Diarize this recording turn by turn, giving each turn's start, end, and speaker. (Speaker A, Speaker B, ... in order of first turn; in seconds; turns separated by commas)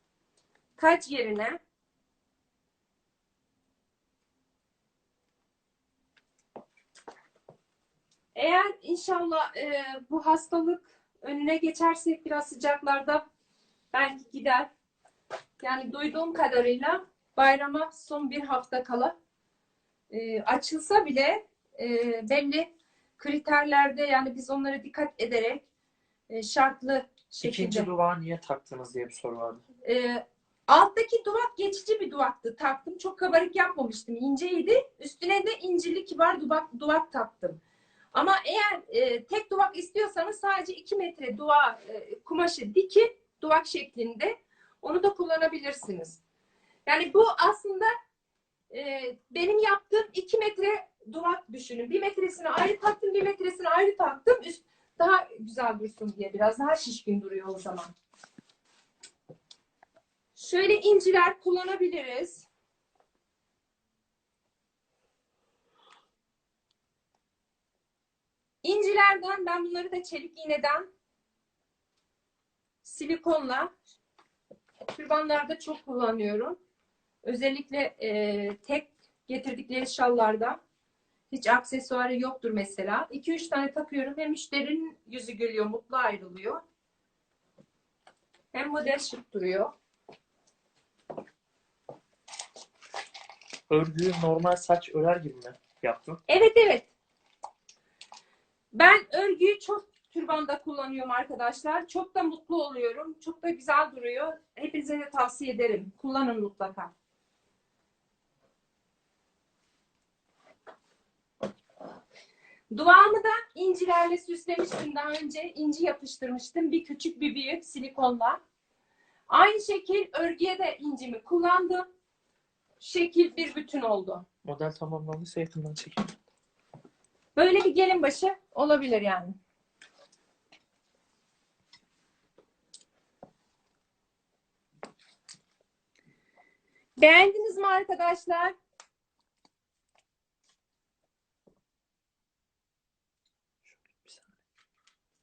Speaker A: 0.8-1.6, Speaker A: 8.3-13.2, Speaker A: 13.9-14.7, Speaker A: 15.6-19.1, Speaker A: 20.1-25.6, Speaker A: 26.3-27.9, Speaker B: 27.4-29.6, Speaker A: 29.8-37.6, Speaker A: 38.1-46.2, Speaker A: 46.9-47.9, Speaker A: 48.7-57.9, Speaker A: 60.4-62.5, Speaker A: 68.6-70.9, Speaker A: 72.8-73.7, Speaker A: 74.9-76.6, Speaker A: 77.2-80.6, Speaker A: 81.3-86.6, Speaker A: 88.5-89.7, Speaker B: 93.7-96.2, Speaker A: 96.3-96.9, Speaker A: 98.7-106.9, Speaker A: 112.7-118.4, Speaker A: 119.3-121.9, Speaker A: 122.8-124.3, Speaker B: 124.4-126.2, Speaker A: 127.4-129.4, Speaker A: 137.0-138.6, Speaker B: 143.7-144.3